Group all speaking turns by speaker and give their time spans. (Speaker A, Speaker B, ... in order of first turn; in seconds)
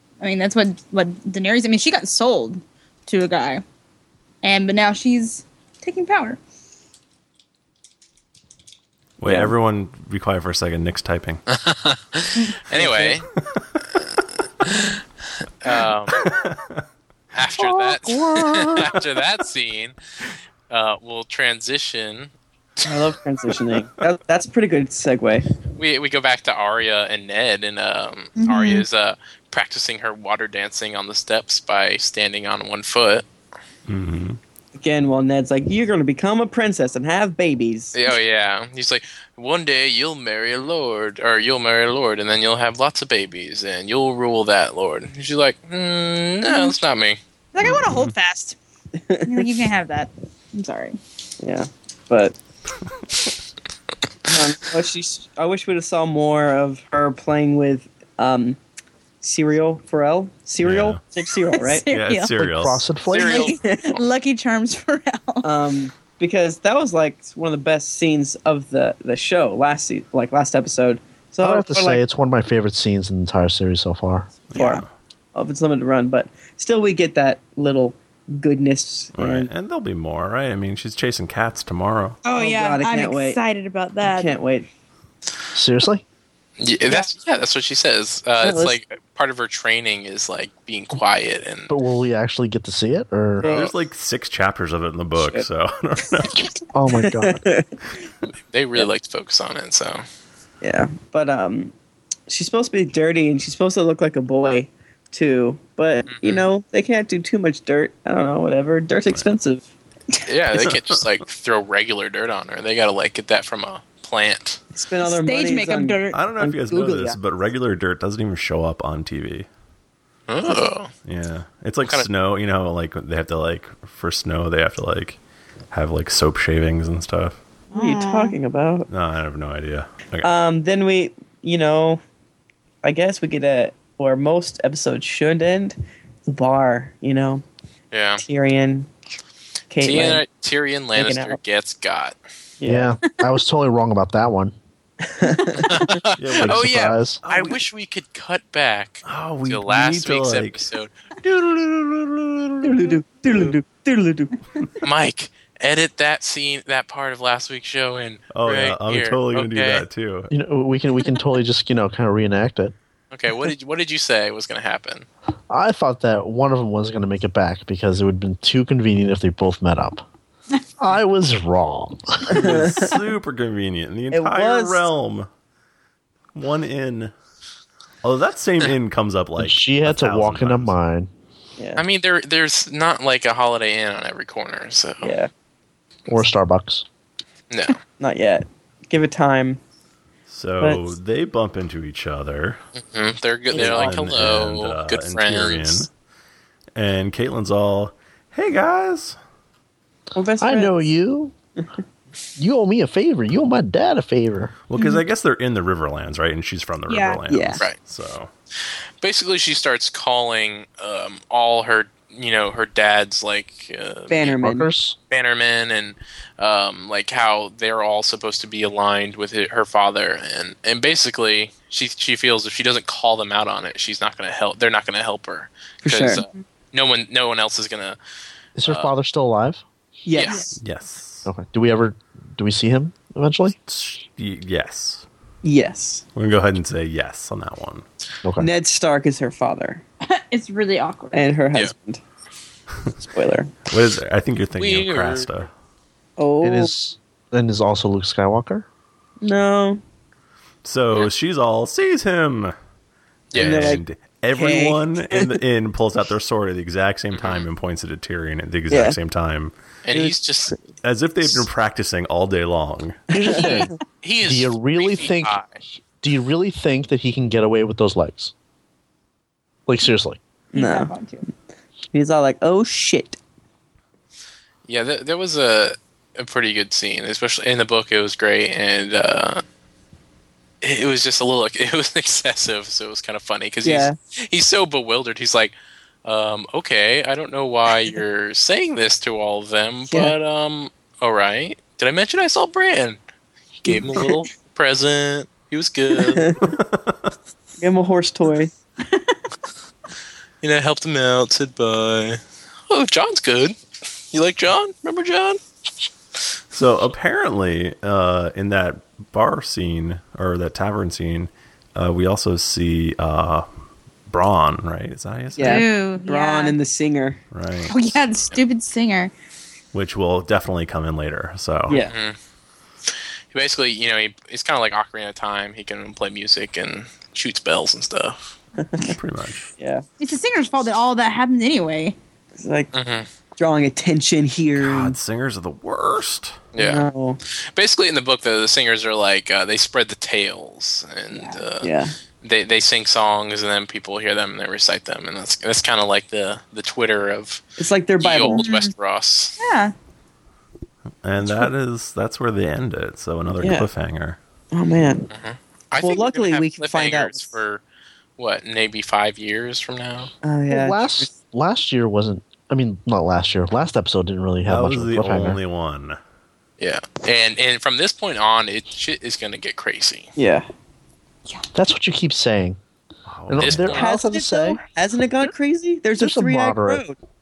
Speaker A: 0.2-3.6, 4.4-6.4, 28.4-28.9, 46.5-46.7, 47.5-48.6, 49.2-51.0, 61.5-62.3, 63.2-65.5, 74.5-74.8, 82.2-84.3, 115.0-116.3, 127.7-128.3, 204.7-205.0, 206.9-207.2, 230.2-230.5, 240.1-241.2, 270.5-271.3, 298.9-299.2, 315.4-316.6, 317.7-319.1, 330.0-331.9, 341.1-341.4, 348.2-348.7, 349.4-349.7
Speaker B: 9.2-11.4, 16.1-16.8, 33.9-34.4, 47.6-48.1, 60.6-61.0, 61.9-62.8, 74.5-74.9, 79.1-82.2, 93.4-96.5, 110.5-111.0, 116.1-119.5, 121.0-125.2, 125.7-127.4, 128.9-130.3, 146.2-147.6, 149.1-150.6, 151.2-152.7, 158.3-160.3, 172.3-175.3, 176.3-177.1, 178.0-180.7, 190.3-192.6, 193.5-195.9, 196.7-199.2, 204.7-208.3, 230.6-231.3, 233.7-235.1, 236.1-237.8, 243.7-245.5, 250.6-252.5, 253.3-259.5, 260.8-263.0, 306.5-313.4, 314.1-315.7, 317.3-318.0, 319.7-321.8, 328.8-329.5, 334.6-336.4, 351.0-354.2, 364.4-366.0, 373.1-373.8
Speaker C: 9.2-9.5, 12.7-13.2, 22.8-25.4, 34.7-37.9, 49.0-49.5, 51.4-52.4, 54.3-58.6, 59.2-61.9, 63.3-63.9, 65.4-72.0, 74.5-74.8, 75.3-79.5, 82.3-83.4, 84.0-84.7, 88.4-88.8, 93.4-93.7, 95.2-95.5, 96.9-97.7, 100.6-101.7, 102.3-109.6, 114.7-117.2, 127.7-128.9, 130.2-132.0, 132.8-137.4, 138.2-138.9, 139.7-140.2, 140.9-141.4, 142.6-143.0, 145.0-146.0, 152.6-154.7, 172.3-173.0, 174.1-174.8, 181.6-181.8, 185.0-185.3, 188.0-189.6, 190.6-190.8, 193.5-193.9, 200.1-200.7, 207.3-207.6, 214.1-214.7, 225.8-226.4, 230.1-230.6, 235.4-236.0, 238.4-239.8, 241.1-242.0, 243.1-243.5, 246.2-246.7, 249.2-249.8, 253.4-253.8, 254.3-255.3, 258.7-259.0, 263.2-263.8, 270.5-270.9, 271.9-273.2, 283.6-283.9, 289.9-290.1, 293.7-294.0, 296.0-296.6, 297.6-298.5, 315.4-317.2, 321.7-321.9, 328.6-329.0, 329.6-329.8, 332.4-332.7, 333.4-334.9, 336.6-337.2, 341.6-341.9, 347.6-348.5, 353.4-353.7, 354.5-355.1, 355.8-357.4, 360.2-361.1, 370.1-370.4, 373.7-377.0
Speaker D: 11.5-13.3, 15.6-16.2, 17.3-19.9, 20.7-22.3, 25.8-33.2, 37.9-47.2, 63.1-63.6, 86.6-91.7, 98.5-100.0, 106.1-106.5, 110.3-114.6, 120.3-120.9, 137.9-138.2, 139.8-142.2, 145.6-150.9, 154.8-159.8, 163.1-165.1, 181.8-185.1, 187.5-187.8, 192.8-195.9, 209.0-214.3, 215.1-228.0, 228.6-228.9, 230.1-230.4, 244.6-245.3, 253.3-253.7, 257.1-257.5, 259.8-260.6, 264.0-265.6, 274.7-279.4, 280.6-285.5, 286.0-293.0, 293.6-296.3, 300.4-303.6, 304.1-305.4, 321.8-322.2, 322.9-328.3, 332.7-333.1, 336.5-347.4, 348.0-349.4, 355.1-357.6, 358.2-360.1, 366.6-370.1, 373.4-373.9
Speaker E: 17.6-18.9, 62.4-63.5, 71.4-74.3, 85.5-86.0, 91.7-93.5, 96.7-97.4, 142.7-144.5, 146.4-147.2, 160.3-162.7, 165.5-170.0, 170.8-172.5, 179.4-181.1, 186.1-186.8, 200.4-201.3, 202.4-204.5, 214.4-214.9, 228.6-229.6, 231.2-233.6, 238.2-238.5, 246.4-248.7, 263.1-263.7, 264.2-268.3, 269.7-270.2, 360.5-365.4, 371.5-372.6, 373.3-374.6, 376.0-376.8